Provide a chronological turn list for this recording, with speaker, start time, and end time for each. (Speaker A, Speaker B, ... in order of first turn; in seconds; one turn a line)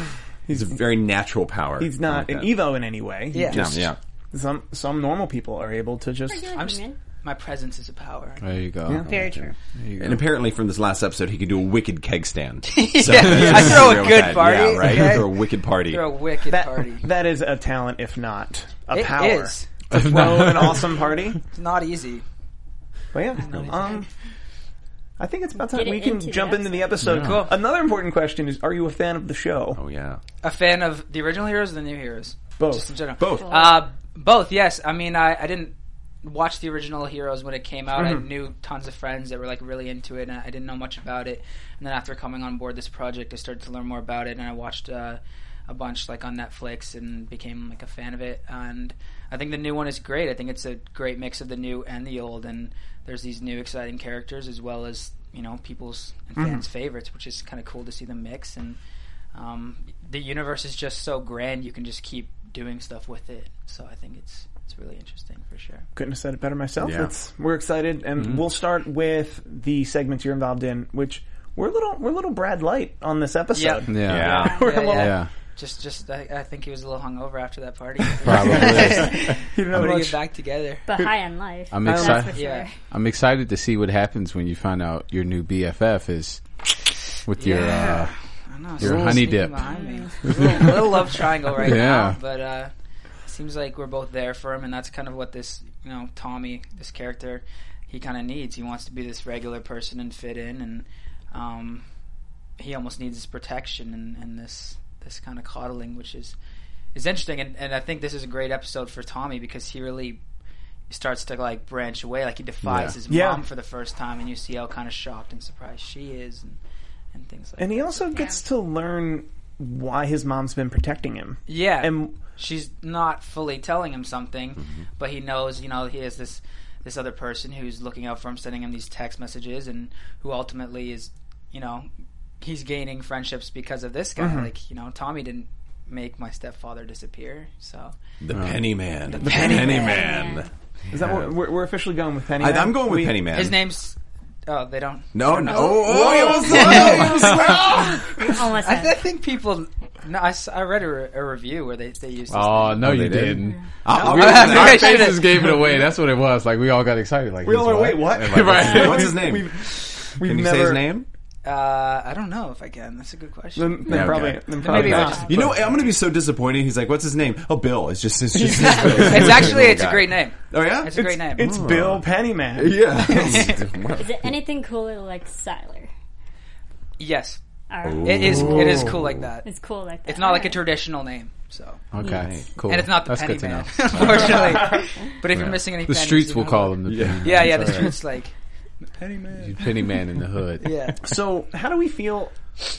Speaker A: 0.5-0.8
Speaker B: 0.6-2.5
Speaker A: 1.8-6.5
Speaker C: 3.3-3.6
Speaker B: 3.4-4.0
Speaker D: 6.3-7.0
Speaker C: 6.6-8.6
Speaker E: 8.4-9.1
Speaker B: 8.9-16.0
Speaker D: 9.1-9.5
Speaker E: 9.6-10.2
Speaker C: 12.7-17.1
Speaker A: 16.5-21.4
Speaker C: 18.9-19.7
Speaker E: 19.9-20.8
Speaker C: 21.5-22.2
Speaker A: 23.1-24.1
Speaker C: 23.4-24.1
Speaker A: 25.2-29.8
Speaker D: 25.7-26.8
Speaker E: 27.0-27.4
Speaker C: 27.1-27.5
Speaker B: 29.7-30.2
Speaker C: 30.4-58.8
Speaker A: 32.6-33.5
Speaker D: 33.4-33.8
Speaker A: 37.9-38.2
Speaker A: 56.4-56.6
Speaker C: 59.3-65.9
Speaker A: 66.0-75.1
Speaker B: 66.8-67.1
Speaker E: 68.2-68.4
Speaker C: 73.5-80.8
Speaker E: 73.9-74.3
Speaker B: 74.0-74.6
Speaker D: 74.2-74.7
Speaker E: 74.9-75.3
Speaker E: 78.2-79.3
Speaker A: 78.4-80.2
Speaker D: 80.9-82.7
Speaker E: 81.7-86.4
Speaker A: 81.8-82.3
Speaker C: 82.3-82.7
Speaker E: 87.2-88.1
Speaker C: 87.4-92.7
Speaker E: 88.8-89.7
Speaker D: 89.6-90.1
Speaker E: 90.2-90.9
Speaker E: 91.5-92.2
Speaker C: 93.2-101.8
Speaker C: 102.6-106.3
Speaker C: 106.9-110.2
Speaker C: 110.9-116.6
Speaker E: 112.6-113.0
Speaker A: 113.1-113.4
Speaker C: 117.1-118.1
Speaker A: 117.6-122.1
Speaker D: 118.1-118.4
Speaker C: 121.5-131.9
Speaker C: 132.4-137.9
Speaker A: 134.2-134.5
Speaker B: 138.2-141.3
Speaker E: 138.3-138.6
Speaker C: 139.1-140.0
Speaker A: 139.1-140.1
Speaker D: 139.5-140.5
Speaker A: 140.9-143.2
Speaker B: 142.4-143.6
Speaker C: 143.3-147.2
Speaker B: 145.1-148.0
Speaker A: 145.5-148.4
Speaker D: 148.2-149.0
Speaker C: 148.6-152.8
Speaker E: 152.3-159.2
Speaker B: 152.8-155.1
Speaker A: 153.9-155.0
Speaker C: 154.0-155.5
Speaker A: 157.4-160.9
Speaker B: 158.1-159.5
Speaker B: 160.2-161.1
Speaker C: 161.4-164.0
Speaker A: 163.6-165.7
Speaker B: 163.9-172.0
Speaker C: 164.6-165.2
Speaker D: 164.9-165.2
Speaker A: 168.3-169.4
Speaker C: 168.6-171.5
Speaker E: 168.6-169.4
Speaker A: 170.9-173.6
Speaker B: 172.5-174.3
Speaker C: 173.0-173.6
Speaker D: 174.0-175.9
Speaker C: 177.0-177.4
Speaker D: 177.7-178.2
Speaker B: 177.8-179.3
Speaker C: 178.0-179.4
Speaker A: 178.4-178.8
Speaker D: 179.4-180.6
Speaker C: 180.1-181.8
Speaker E: 181.9-184.1
Speaker B: 182.0-182.6
Speaker C: 182.7-188.3
Speaker B: 183.9-184.5
Speaker A: 184.3-184.9
Speaker B: 185.3-185.6
Speaker E: 185.5-187.9
Speaker B: 186.9-187.3
Speaker C: 189.0-189.9
Speaker E: 189.4-190.7
Speaker C: 190.6-191.0
Speaker A: 191.0-192.3